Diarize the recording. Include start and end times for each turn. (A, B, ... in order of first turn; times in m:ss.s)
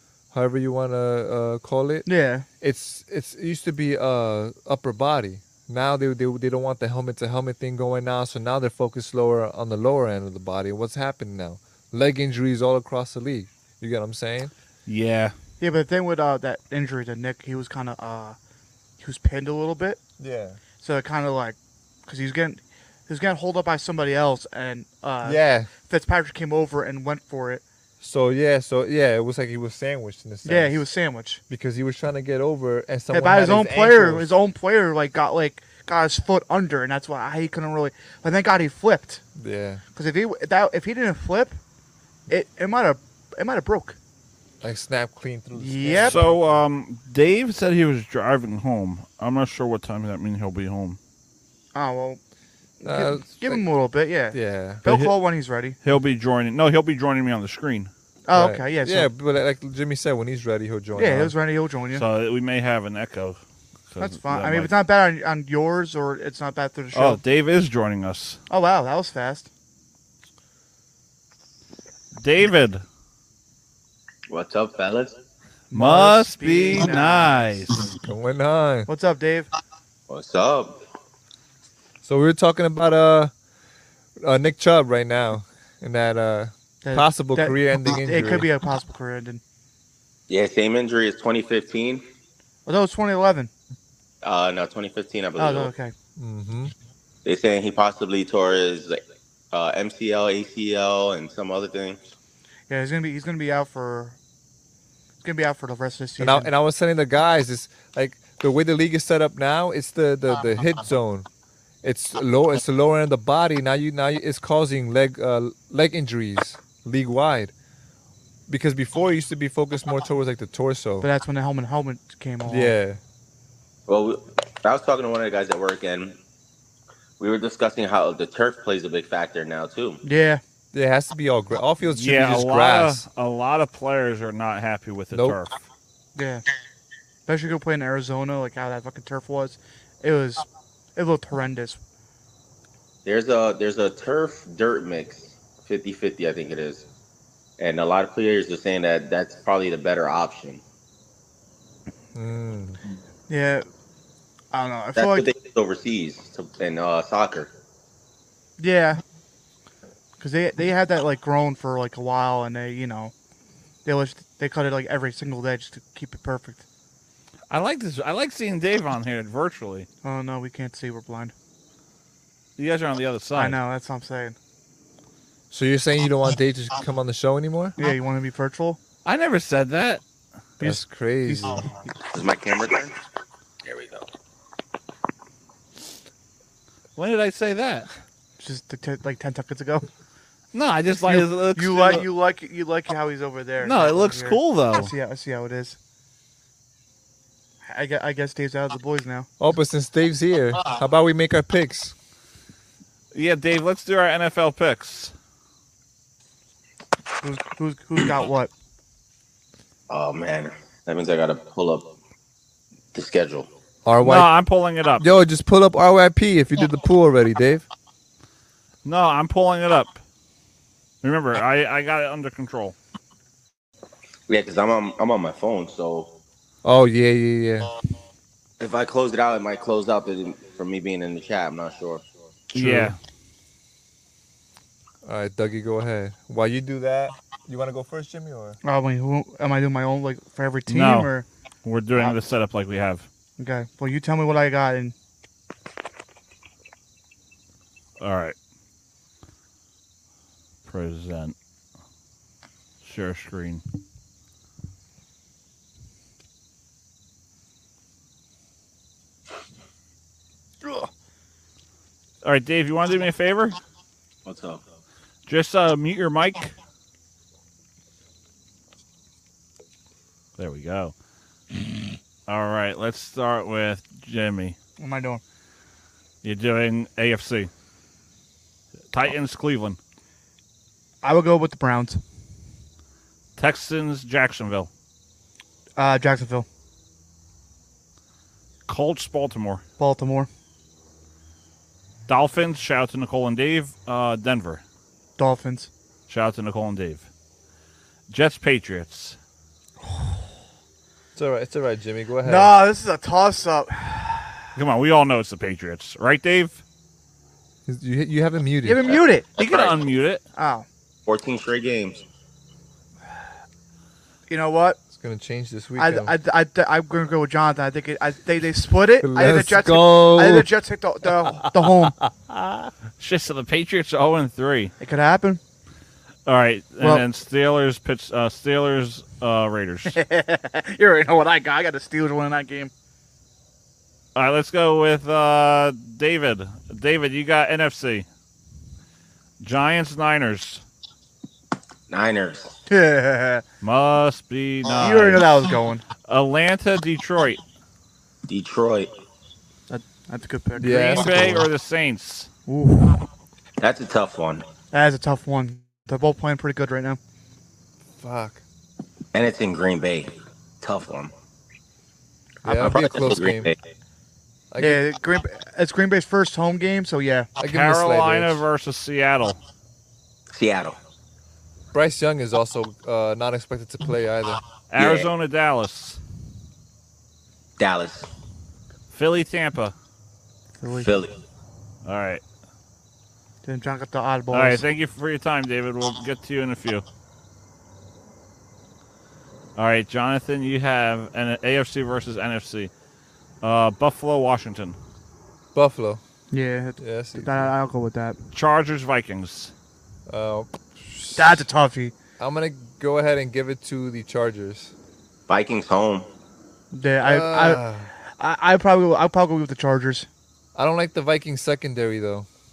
0:00.3-0:02.1 A
0:02.1-0:02.5 B
0:02.6-0:14.5 A
0:14.9-0:15.3 C
0:15.6-0:18.4 B
0:19.0-0:20.0 B
0:20.2-0:20.6 A
0:20.8-0:27.6 B
0:25.2-0:25.7 A
0:28.0-0:30.8 A
0:30.4-0:31.4 B
0:31.5-0:34.3 A
0:33.1-0:39.2 B
0:39.4-0:39.8 A
0:40.0-0:41.6 B
0:42.3-0:44.0 B
0:44.6-0:46.6 A
0:45.6-0:46.2 B
0:46.0-0:51.0 C
0:51.8-0:52.2 B
0:52.8-0:55.8 B
0:52.8-0:53.7 A
0:54.3-0:54.8 A
0:54.9-0:55.1 C
0:55.8-0:57.9 C
0:58.3-0:59.1 B
0:58.3-1:01.3 A
1:01.0-1:02.0 B
1:01.9-1:04.7 C
1:04.0-1:07.2 B
1:06.9-1:08.4 C
1:08.5-1:09.5 B
1:12.2-1:12.8 C
1:14.3-1:15.2 D
1:15.7-1:17.6 B
1:15.7-1:17.8 C
1:18.0-1:18.9 A
1:18.9-1:19.5 B
1:20.1-1:20.8 D
1:22.0-1:23.3 A
1:24.2-1:28.5 A
1:26.8-1:29.4 B
1:30.3-1:32.0 D
1:32.7-1:33.5 B
1:34.2-1:35.7 D
1:35.4-1:35.9 B
1:36.2-1:36.7 A
1:37.2-1:42.0 D
1:42.7-1:44.2 B
1:45.2-1:46.5 B
1:46.2-1:51.3 A
1:51.8-1:57.5 A
1:58.5-2:01.1 A
2:01.0-2:02.7 B
2:02.5-2:03.0 A
2:03.9-2:06.2 D
2:07.2-2:10.0 D
2:10.0-2:10.4 B
2:10.7-2:13.0 A
2:11.9-2:15.6 C
2:15.1-2:15.4 A
2:16.2-2:16.4 B
2:17.3-2:20.4 B
2:21.0-2:21.8 B
2:23.0-2:26.8 D
2:27.6-2:30.6 D
2:32.2-2:32.8 A
2:33.3-2:33.7 B
2:34.5-2:35.3 B
2:35.0-2:37.5 D
2:38.6-2:39.0 B
2:40.2-2:43.1 B
2:43.8-2:46.6 B
2:47.5-2:49.9 C
2:50.0-2:51.3 B
2:52.6-2:53.6 C
2:53.4-2:54.4 B
2:55.5-2:57.8 A
2:57.8-2:58.8 B
2:59.0-3:00.0 C
3:00.6-3:01.6 A
3:00.6-3:01.7 B
3:02.1-3:02.9 D
3:03.6-3:04.1 D
3:07.0-3:07.9 C
3:08.4-3:09.9 B
3:10.5-3:12.1 C
3:11.0-3:15.8 B
3:13.6-3:14.9 C
3:17.7-3:19.3 B
3:19.4-3:22.0 A
3:23.1-3:25.1 C
3:27.2-3:28.5 B
3:29.9-3:31.9 D
3:32.9-3:33.5 D
3:33.8-3:34.3 A
3:34.0-3:35.0 C
3:35.0-3:37.7 A
3:38.8-3:40.0 C
3:41.0-3:42.8 C
3:44.3-3:46.2 D
3:46.6-3:47.7 A
3:48.6-3:52.1 D
3:52.5-3:53.0 C
3:52.6-3:52.9 A
3:55.0-3:58.6 A
3:58.6-4:01.3 B
4:00.7-4:01.1 C
4:01.6-4:03.1 C
4:01.9-4:02.2 B
4:03.4-4:05.0 B
4:08.0-4:08.4 C
4:10.6-4:11.4 C
4:12.8-4:13.6 C
4:22.2-4:23.6 C
4:24.2-4:24.6 D
4:25.3-4:26.5 C
4:30.4-4:31.0 C
4:32.3-4:34.6 C
4:34.8-4:35.2 B
4:36.2-4:37.5 C
4:38.9-4:39.8 C
4:41.0-4:42.0 B
4:43.4-4:44.7 C
4:45.8-4:46.5 B
4:48.7-4:49.6 C
4:49.8-4:50.3 B
4:52.1-4:54.6 C
4:55.2-4:55.7 B
4:56.1-4:57.1 C
4:58.1-4:59.2 C
5:01.2-5:02.6 A
5:02.2-5:04.4 B
5:04.6-5:06.6 C
5:07.7-5:09.0 A
5:08.6-5:09.3 B
5:09.4-5:10.2 C
5:09.4-5:09.8 D
5:10.4-5:10.7 B
5:11.1-5:12.0 D
5:14.3-5:14.8 B
5:14.9-5:16.1 A
5:15.8-5:22.0 B
5:19.0-5:20.5 A
5:21.0-5:22.7 A
5:23.0-5:24.7 C
5:24.8-5:25.4 B
5:26.3-5:30.0 C
5:29.9-5:32.7 B
5:34.2-5:38.1 C
5:39.4-5:40.6 C
5:41.9-5:42.6 D
5:42.7-5:43.4 B
5:43.6-5:45.3 C
5:44.8-5:45.8 B
5:46.1-5:47.4 C
5:48.3-5:48.9 D
5:49.7-5:51.4 B
5:50.6-5:51.5 A
5:50.7-5:52.3 C
5:52.5-5:53.0 B
5:53.6-5:54.4 D
5:54.7-5:57.0 B
5:58.0-5:58.4 A
5:59.1-6:01.1 D
6:02.4-6:03.5 A
6:02.4-6:02.7 B
6:02.6-6:03.6 D
6:04.5-6:04.8 A
6:04.6-6:07.3 B
6:07.4-6:08.4 A
6:07.4-6:09.4 C
6:10.3-6:10.8 D
6:11.7-6:14.4 A
6:14.7-6:16.0 C
6:14.8-6:15.1 D
6:17.6-6:18.1 D
6:18.9-6:19.8 C
6:20.6-6:21.0 B
6:20.7-6:21.2 D
6:21.8-6:22.2 C
6:23.4-6:24.6 B
6:24.3-6:26.8 C
6:29.6-6:32.7 C
6:33.4-6:34.8 C
6:35.5-6:36.0 A
6:36.3-6:38.2 B
6:36.8-6:37.5 A
6:38.3-6:39.5 C
6:40.1-6:41.5 A
6:41.2-6:41.9 B
6:42.2-6:44.7 A
6:45.3-6:46.1 D
6:46.7-6:47.6 B
6:47.0-6:47.9 A
6:48.2-6:50.1 B
6:50.6-6:52.3 A